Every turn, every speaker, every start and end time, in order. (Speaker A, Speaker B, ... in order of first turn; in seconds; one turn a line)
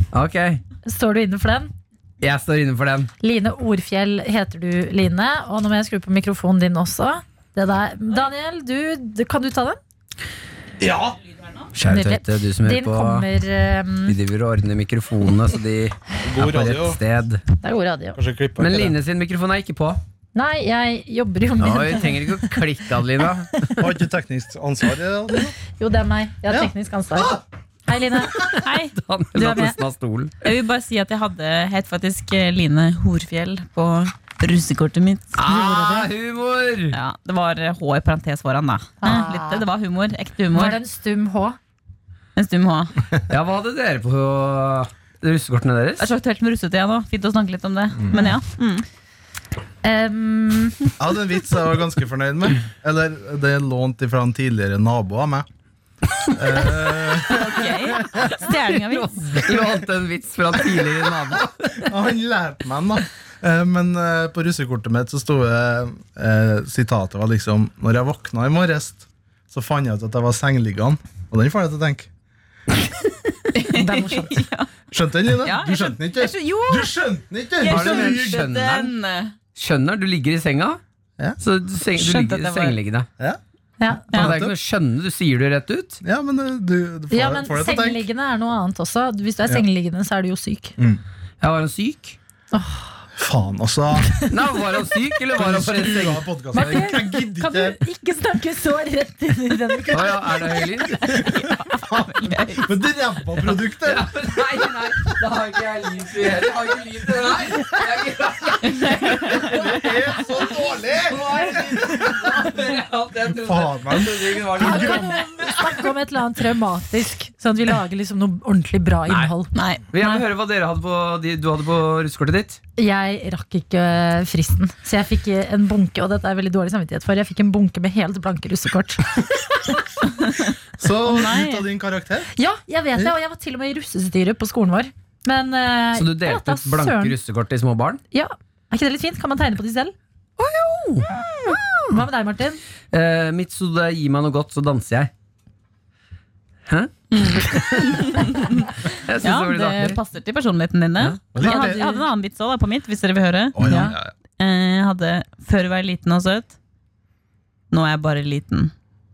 Speaker A: 0.1-0.6
Speaker B: 0.8-1.7
Speaker A: 2.2-3.1
Speaker B: 3.2-9.8
Speaker C: 10.8-11.2
Speaker A: 11.7-13.3
Speaker B: 11.8-14.2
Speaker A: 14.1-17.4
Speaker C: 16.2-17.0
Speaker B: 17.6-18.2
Speaker C: 18.1-19.0
Speaker A: 18.6-20.0
Speaker B: 20.3-22.7
Speaker A: 21.6-23.8
Speaker C: 23.8-25.6
Speaker B: 25.8-28.6
Speaker C: 26.5-27.4
Speaker A: 28.4-30.4
Speaker D: 28.6-29.0
Speaker B: 29.4-29.8
Speaker D: 30.4-35.4
Speaker A: 35.4-37.0
Speaker B: 35.4-36.1
Speaker D: 36.9-40.8
Speaker B: 39.0-39.7
Speaker B: 40.5-41.6
Speaker D: 42.4-43.0
Speaker A: 43.3-46.1
Speaker D: 46.0-48.9
Speaker B: 49.8-51.0
Speaker C: 51.0-55.5
Speaker C: 56.3-58.1
Speaker D: 57.3-59.7
Speaker A: 58.1-61.9
Speaker C: 60.6-72.1
Speaker D: 73.5-74.7
Speaker B: 73.7-74.5
Speaker C: 74.9-78.5
Speaker D: 75.4-77.0
Speaker D: 77.6-79.3
Speaker A: 77.7-78.9
Speaker A: 79.5-80.8
Speaker A: 81.4-83.1
Speaker D: 81.9-82.8
Speaker B: 83.8-84.2
Speaker C: 84.1-84.6
Speaker A: 84.1-86.0
Speaker C: 86.0-88.0
Speaker B: 87.1-90.8
Speaker A: 91.4-92.2
Speaker B: 92.5-93.0
Speaker C: 93.2-94.3
Speaker A: 94.3-96.8
Speaker C: 95.3-97.8
Speaker B: 96.5-100.7
Speaker A: 99.9-101.2
Speaker D: 100.9-102.8
Speaker C: 101.0-104.2
Speaker A: 103.4-115.8
Speaker D: 108.7-109.7
Speaker C: 109.1-112.5
Speaker C: 113.4-115.7
Speaker B: 114.6-120.2
Speaker A: 119.1-119.4
Speaker D: 119.5-119.9
Speaker A: 119.9-122.6
Speaker B: 122.8-130.0
Speaker C: 130.8-132.3
Speaker D: 131.1-131.7
Speaker B: 132.3-137.2
Speaker A: 135.9-138.0
Speaker B: 138.1-139.9
Speaker A: 140.4-141.9
Speaker B: 141.9-142.6
Speaker A: 142.9-145.1
Speaker A: 146.7-150.0
Speaker D: 147.3-156.6
Speaker C: 151.3-151.9
Speaker B: 151.4-152.1
Speaker C: 153.6-154.1
Speaker A: 153.6-153.9
Speaker D: 157.7-158.7